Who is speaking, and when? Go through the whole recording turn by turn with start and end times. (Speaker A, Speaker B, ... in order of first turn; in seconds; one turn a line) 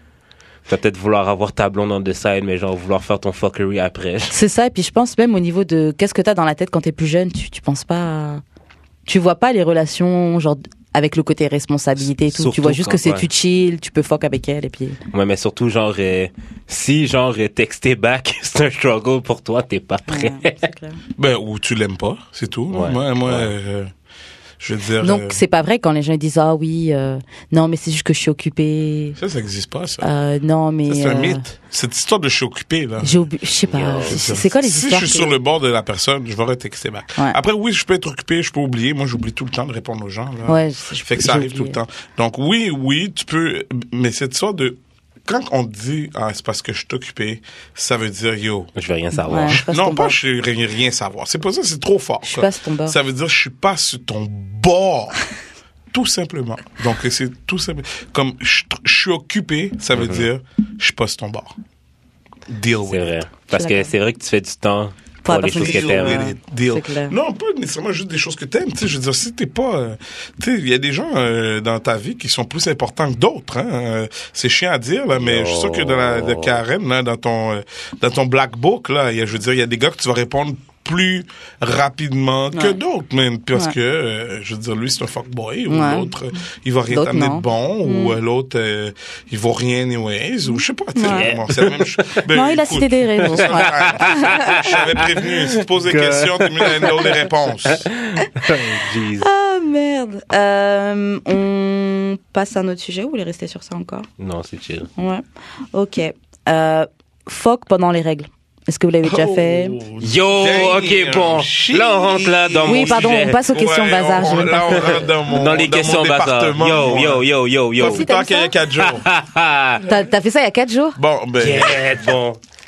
Speaker A: 0.7-4.3
Speaker B: 4.3-8.4
Speaker B: 9.1-15.0
Speaker A: 12.0-13.2
Speaker A: 15.1-20.7
Speaker B: 20.1-21.0
Speaker C: 21.2-23.9
Speaker A: 22.7-23.5
Speaker C: 24.6-25.4
Speaker B: 25.0-29.2
Speaker C: 29.2-30.1
Speaker B: 30.0-31.4
Speaker C: 30.9-33.3
Speaker B: 33.0-35.4
Speaker A: 33.6-34.2
Speaker C: 34.0-48.7
Speaker B: 40.5-41.8
Speaker A: 48.8-49.6
Speaker B: 49.2-50.1
Speaker C: 49.4-55.2
Speaker B: 52.2-53.0
Speaker C: 55.9-61.5
Speaker A: 60.0-60.2
Speaker C: 62.5-63.2
Speaker A: 62.9-66.2
Speaker B: 63.5-63.9
Speaker B: 65.2-67.2
Speaker C: 65.5-97.9
Speaker A: 75.2-76.6
Speaker B: 82.5-82.8
Speaker B: 85.7-86.1
Speaker B: 86.9-88.2
Speaker B: 90.9-91.3
Speaker A: 91.0-92.1
Speaker B: 92.3-94.8
Speaker A: 93.2-99.3
Speaker B: 98.2-98.6
Speaker B: 99.2-104.1
Speaker A: 104.2-104.9
Speaker B: 105.0-109.8
Speaker C: 109.0-119.0
Speaker A: 110.0-113.4
Speaker B: 112.7-115.1
Speaker A: 114.7-118.1
Speaker B: 117.8-118.5
Speaker A: 118.8-119.8
Speaker B: 119.8-121.0
Speaker C: 121.0-122.1
Speaker A: 121.4-122.4